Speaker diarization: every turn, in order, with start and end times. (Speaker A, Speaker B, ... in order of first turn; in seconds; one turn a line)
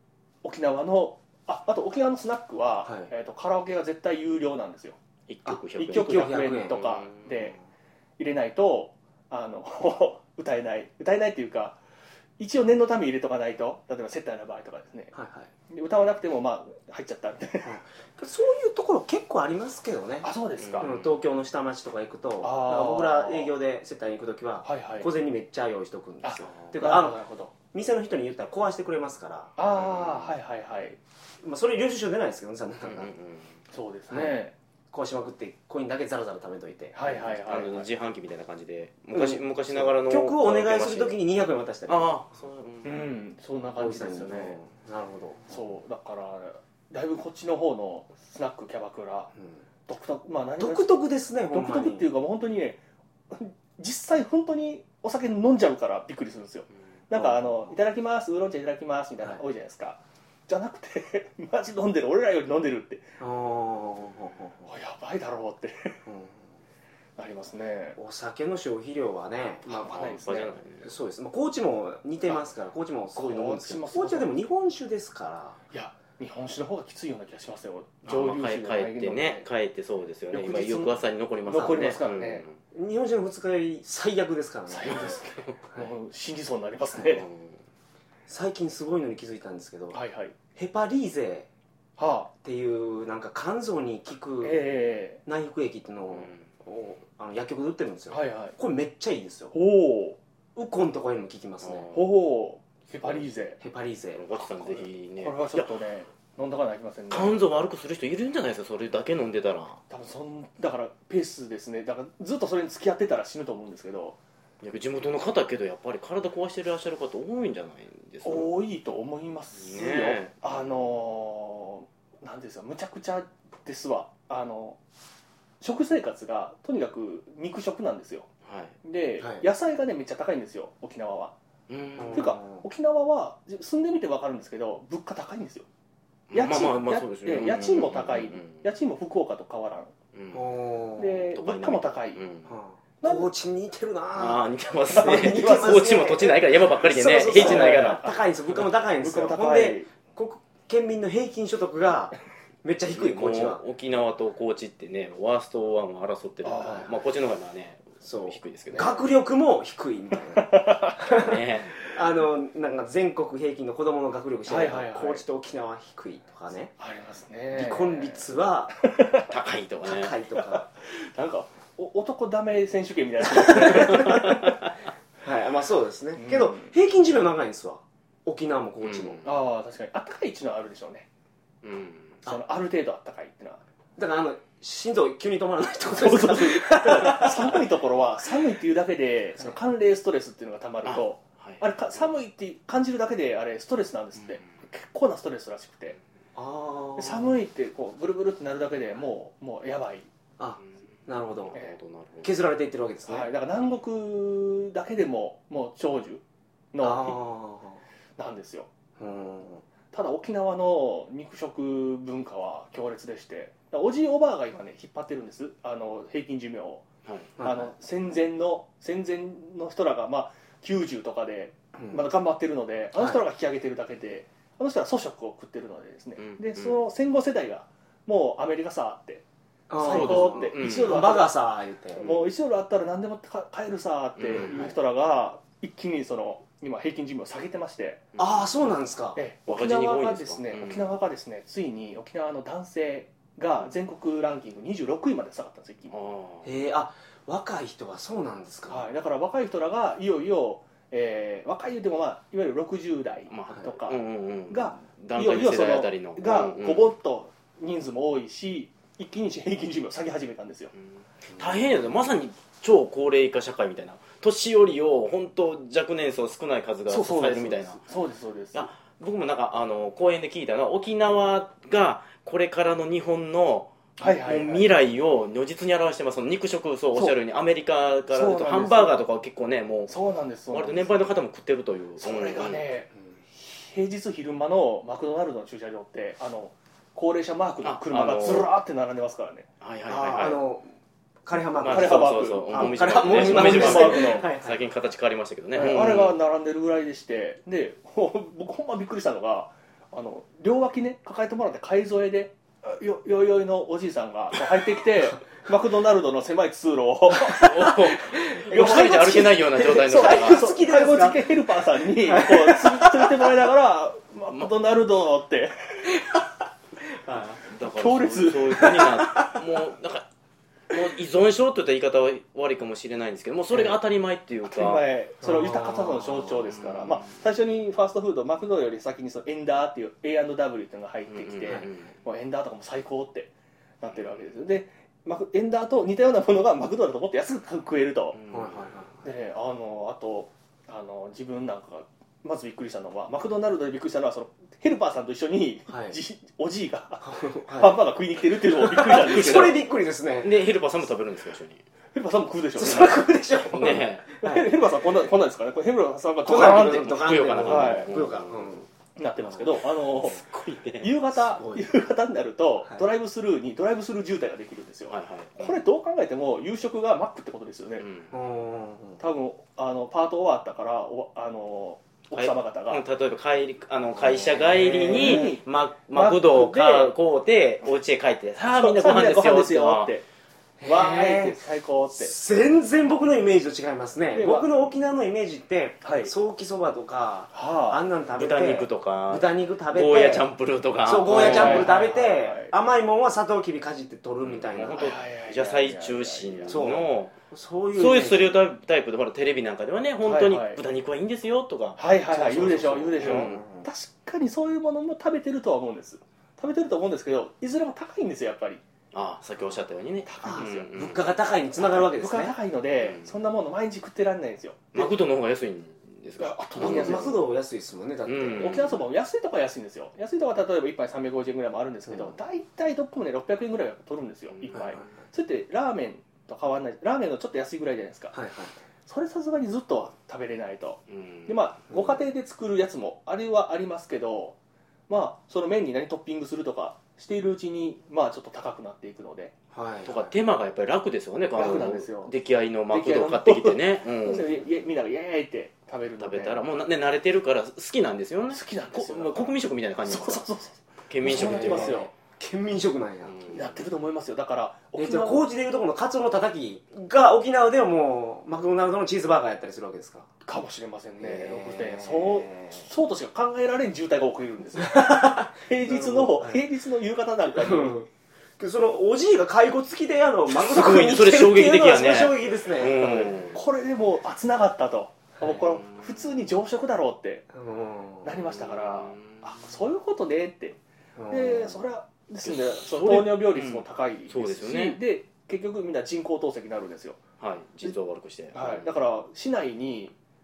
Speaker A: 0.4-5.0
Speaker B: 5.3-7.3
Speaker C: 5.5-6.8
Speaker A: 5.8-7.6
Speaker A: 8.2-11.8
Speaker A: 12.4-15.1
Speaker C: 15.1-15.5
Speaker A: 15.7-17.8
Speaker C: 17.6-27.2
Speaker A: 20.2-20.9
Speaker B: 20.6-21.1
Speaker A: 22.4-23.5
Speaker A: 24.6-25.1
Speaker A: 26.2-27.5
Speaker C: 27.7-29.5
Speaker A: 29.6-31.0
Speaker B: 29.8-30.3
Speaker C: 31.4-33.1
Speaker B: 32.9-33.5
Speaker A: 33.7-34.5
Speaker C: 34.1-34.4
Speaker C: 34.9-37.1
Speaker A: 36.9-37.9
Speaker B: 37.2-41.2
Speaker C: 39.1-42.2
Speaker B: 41.9-43.1
Speaker A: 42.8-44.6
Speaker C: 43.8-45.5
Speaker A: 45.5-49.3
Speaker A: 49.9-52.8
Speaker C: 50.6-52.0
Speaker A: 53.3-63.1
Speaker C: 57.1-57.4
Speaker C: 63.2-64.7
Speaker A: 64.7-66.0
Speaker C: 66.0-66.4
Speaker A: 67.2-68.0
Speaker C: 68.0-69.9
Speaker A: 69.6-70.6
Speaker B: 69.9-70.9
Speaker C: 70.8-75.6
Speaker A: 73.2-74.3
Speaker A: 75.7-79.5
Speaker B: 78.0-82.5
Speaker A: 80.3-82.5
Speaker C: 82.7-85.1
Speaker A: 84.7-87.2
Speaker B: 84.9-85.5
Speaker B: 87.1-87.6
Speaker C: 88.3-90.0
Speaker A: 89.9-90.3
Speaker C: 90.5-91.5
Speaker A: 92.0-92.3
Speaker C: 92.4-94.6
Speaker A: 94.4-95.2
Speaker C: 95.2-99.5
Speaker A: 98.1-98.5
Speaker A: 99.5-100.2
Speaker C: 100.5-101.9
Speaker B: 101.6-101.9
Speaker A: 101.9-103.6
Speaker C: 103.6-104.3
Speaker B: 104.2-105.7
Speaker A: 105.2-107.4
Speaker B: 107.1-109.8
Speaker A: 109.9-114.2
Speaker B: 114.6-118.5
Speaker A: 118.2-124.8
Speaker B: 119.6-120.5
Speaker A: 125.6-128.3
Speaker B: 128.4-128.7
Speaker A: 128.8-131.3
Speaker C: 129.2-129.5
Speaker B: 131.7-132.3
Speaker C: 132.0-132.6
Speaker A: 132.1-135.7
Speaker B: 136.3-138.6
Speaker A: 136.3-139.9
Speaker B: 140.1-140.4
Speaker C: 140.3-141.2
Speaker A: 141.0-142.2
Speaker B: 141.3-142.5
Speaker C: 142.4-153.6
Speaker A: 143.0-143.3
Speaker B: 144.2-148.1
Speaker A: 144.9-145.7
Speaker A: 147.2-149.9
Speaker B: 152.9-159.0
Speaker A: 156.4-156.9
Speaker C: 158.0-161.3
Speaker A: 160.4-161.0
Speaker B: 161.1-161.7
Speaker C: 161.8-166.7
Speaker A: 164.5-165.2
Speaker A: 166.8-169.3
Speaker C: 167.5-168.7
Speaker B: 169.3-170.1
Speaker C: 169.8-170.6
Speaker A: 170.3-174.4
Speaker C: 173.4-174.4
Speaker B: 174.1-174.5
Speaker C: 175.2-179.2
Speaker A: 176.2-176.7
Speaker B: 178.8-179.3
Speaker A: 179.2-181.1
Speaker B: 181.6-182.2
Speaker A: 182.2-183.6
Speaker C: 184.0-187.6
Speaker A: 185.9-196.0
Speaker B: 190.8-191.6
Speaker C: 196.3-197.3
Speaker A: 197.0-200.1
Speaker C: 200.4-201.5
Speaker B: 201.4-202.3
Speaker C: 202.2-203.3
Speaker A: 203.1-206.2
Speaker A: 206.7-207.2
Speaker C: 206.8-207.8
Speaker A: 208.2-208.7
Speaker C: 209.0-209.6
Speaker A: 209.9-216.8
Speaker C: 217.4-217.7
Speaker A: 217.4-229.2
Speaker C: 221.8-222.0
Speaker B: 226.2-226.8
Speaker C: 229.7-232.1
Speaker A: 229.8-231.3
Speaker B: 229.8-231.2
Speaker A: 232.0-238.0
Speaker B: 234.2-234.6
Speaker C: 234.3-234.7
Speaker B: 238.2-238.4
Speaker C: 238.2-239.2
Speaker A: 239.2-245.9
Speaker B: 239.5-240.8
Speaker B: 245.9-246.5
Speaker C: 246.4-248.8
Speaker A: 248.7-260.7
Speaker B: 253.3-256.9
Speaker C: 261.3-261.6
Speaker B: 261.3-267.8
Speaker A: 266.9-268.7
Speaker B: 268.5-279.9
Speaker A: 274.0-274.7
Speaker A: 278.1-279.0
Speaker A: 279.9-281.0
Speaker B: 280.5-282.7
Speaker A: 282.0-289.5
Speaker B: 287.6-288.5
Speaker B: 289.6-290.4
Speaker C: 289.9-290.7
Speaker C: 291.2-294.6
Speaker B: 291.5-296.2
Speaker A: 291.7-294.3
Speaker A: 295.6-307.9
Speaker B: 307.3-310.5
Speaker C: 307.6-313.3
Speaker A: 308.4-316.0
Speaker C: 317.1-317.4
Speaker B: 317.4-320.1
Speaker A: 317.5-319.2
Speaker B: 320.7-324.9
Speaker A: 324.4-338.2
Speaker C: 325.2-325.9
Speaker B: 326.5-327.0
Speaker B: 331.1-331.8
Speaker B: 338.1-338.7
Speaker C: 338.3-339.0
Speaker A: 339.0-349.6
Speaker C: 345.7-346.0
Speaker C: 347.0-347.8
Speaker C: 348.6-350.4
Speaker B: 350.2-351.6
Speaker A: 351.9-353.1
Speaker C: 352.6-354.5
Speaker B: 353.5-354.0
Speaker A: 354.2-358.0
Speaker C: 356.2-358.6
Speaker B: 356.7-358.6
Speaker A: 359.0-360.2
Speaker B: 360.0-360.9
Speaker A: 360.8-367.9
Speaker C: 361.3-361.6
Speaker B: 364.9-365.6
Speaker B: 367.8-368.1
Speaker C: 368.1-369.0
Speaker A: 369.0-372.8
Speaker B: 372.1-379.9
Speaker C: 374.0-375.4
Speaker A: 374.5-376.9
Speaker A: 378.4-380.0
Speaker C: 380.6-381.4
Speaker A: 380.6-382.1
Speaker C: 381.9-390.3
Speaker A: 384.1-384.5
Speaker A: 385.8-386.1
Speaker A: 387.3-387.8
Speaker B: 388.1-391.7
Speaker C: 390.9-394.9
Speaker A: 391.0-392.5
Speaker B: 394.2-397.1
Speaker A: 394.7-396.8
Speaker C: 396.5-398.4
Speaker B: 397.7-403.4
Speaker A: 400.0-400.6
Speaker A: 401.8-408.6
Speaker C: 402.7-403.6
Speaker B: 408.9-411.1
Speaker A: 410.0-410.7
Speaker C: 410.2-412.3
Speaker A: 411.6-414.9
Speaker B: 412.8-413.1
Speaker B: 414.7-417.1
Speaker A: 416.2-417.2
Speaker C: 416.6-418.5
Speaker B: 418.1-418.8
Speaker A: 418.3-428.1
Speaker C: 421.9-422.1
Speaker B: 424.4-424.7
Speaker C: 424.5-424.8
Speaker C: 428.1-428.5
Speaker A: 428.9-434.4
Speaker B: 430.9-431.3
Speaker A: 434.9-439.3
Speaker C: 439.5-440.1
Speaker B: 439.9-444.4
Speaker A: 441.3-442.1
Speaker A: 442.7-446.4
Speaker B: 446.0-450.2
Speaker A: 448.3-451.9
Speaker B: 450.9-451.9
Speaker C: 451.0-453.3
Speaker B: 453.1-453.6
Speaker A: 453.3-455.3
Speaker C: 454.7-460.1
Speaker A: 460.2-467.8
Speaker C: 461.0-462.6
Speaker C: 464.6-466.4
Speaker C: 467.4-467.9
Speaker C: 468.4-473.2
Speaker B: 470.3-473.4
Speaker A: 473.3-477.3
Speaker C: 477.3-478.1
Speaker A: 478.0-480.6
Speaker B: 478.3-479.2
Speaker C: 480.9-481.6
Speaker A: 481.1-487.0
Speaker B: 482.2-484.8
Speaker B: 487.2-488.7
Speaker A: 488.3-489.9